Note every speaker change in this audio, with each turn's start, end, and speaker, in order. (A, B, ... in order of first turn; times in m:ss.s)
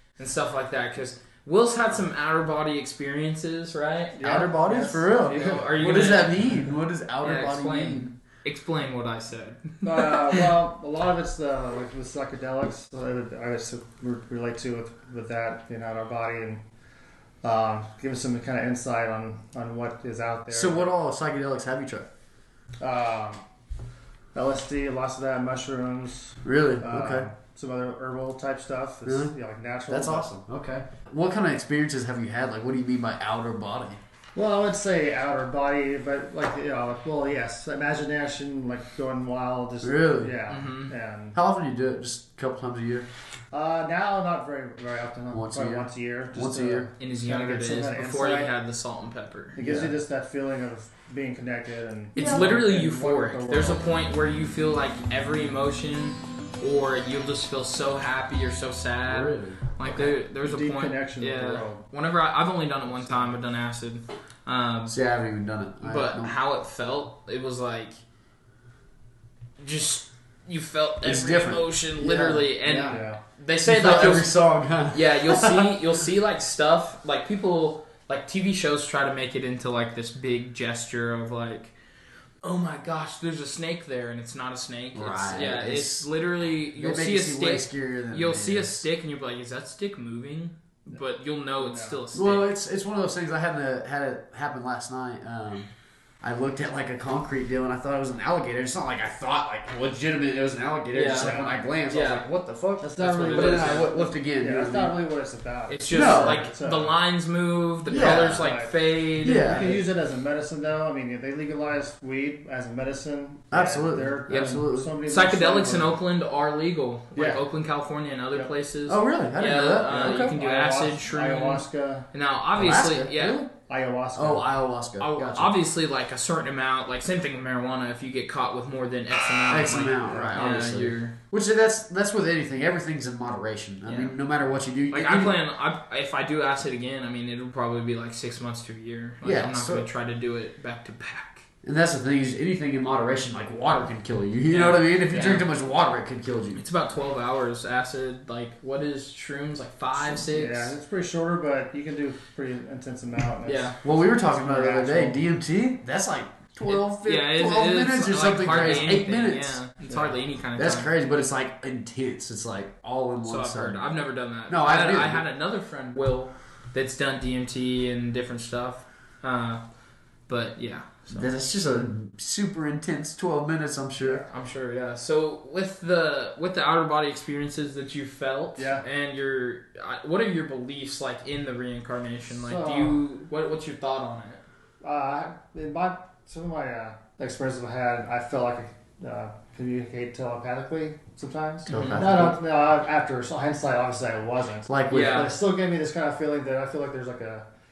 0:00.2-0:04.2 A
0:04.2-0:05.4 B
0:04.2-0:08.1 C
0:05.2-0:06.5 A
0:07.2-0:10.4 A
0:09.8-0:16.6 B
0:17.4-0:20.8 B
0:20.5-0:22.1 C
0:22.8-0:23.4 B
0:24.3-0:30.3 B
0:26.4-0:27.3 C
0:29.0-0:29.3 C
0:29.9-0:34.0 C
0:34.3-0:41.3 B
0:39.8-0:40.4 C
0:40.5-0:40.9 A
0:41.3-0:43.1 C
0:43.5-0:48.5 B
0:45.3-0:46.9 C
0:47.0-0:49.6 A
0:49.5-0:53.9 B
0:49.6-0:49.9 C
0:52.1-1:04.9 A
0:52.2-0:52.6 C
0:59.1-1:00.1 C
0:59.9-1:01.8 B
1:04.9-1:06.3 C
1:05.8-1:08.0 A
1:09.6-1:14.3 A
1:11.0-1:13.0 C
1:12.8-1:13.2 B
1:13.6-1:15.7 C
1:14.9-1:21.8 A
1:22.4-1:32.5 A
1:24.9-1:26.1 C
1:26.8-1:28.8 C
1:31.6-1:32.0 B
1:32.1-1:44.9 C
1:40.9-1:42.2 A
1:41.2-1:41.6 B
1:42.8-1:46.9 B
1:43.0-1:43.9 A
1:45.7-1:49.7 A
1:45.9-1:46.5 C
1:47.9-1:55.9 B
1:47.9-1:48.5 C
1:49.2-1:49.8 C
1:53.5-1:54.9 C
1:54.3-2:03.5 A
1:57.1-1:57.4 B
1:58.8-2:00.3 C
1:59.9-2:02.1 B
2:02.6-2:03.5 C
2:03.6-2:04.4 B
2:04.1-2:05.6 C
2:05.0-2:11.1 A
2:09.5-2:15.4 C
2:13.8-2:14.2 A
2:14.9-2:21.5 A
2:19.2-2:19.9 C
2:21.6-2:26.6 C
2:24.5-2:25.4 A
2:26.6-2:30.8 A
2:30.1-2:35.2 B
2:33.4-2:33.8 A
2:33.8-2:39.6 C
2:36.7-2:40.9 A
2:40.6-2:43.9 C
2:43.2-2:49.6 A
2:44.5-2:45.2 C
2:50.3-2:51.3 A
2:51.1-2:54.2 C
2:54.0-2:54.3 B
2:54.3-3:04.4 A
2:58.6-2:58.8 B
3:02.3-3:03.0 B
3:04.8-3:17.4 B
3:11.6-3:12.4 C
3:11.7-3:12.1 A
3:14.6-3:15.3 C
3:14.9-3:15.3 A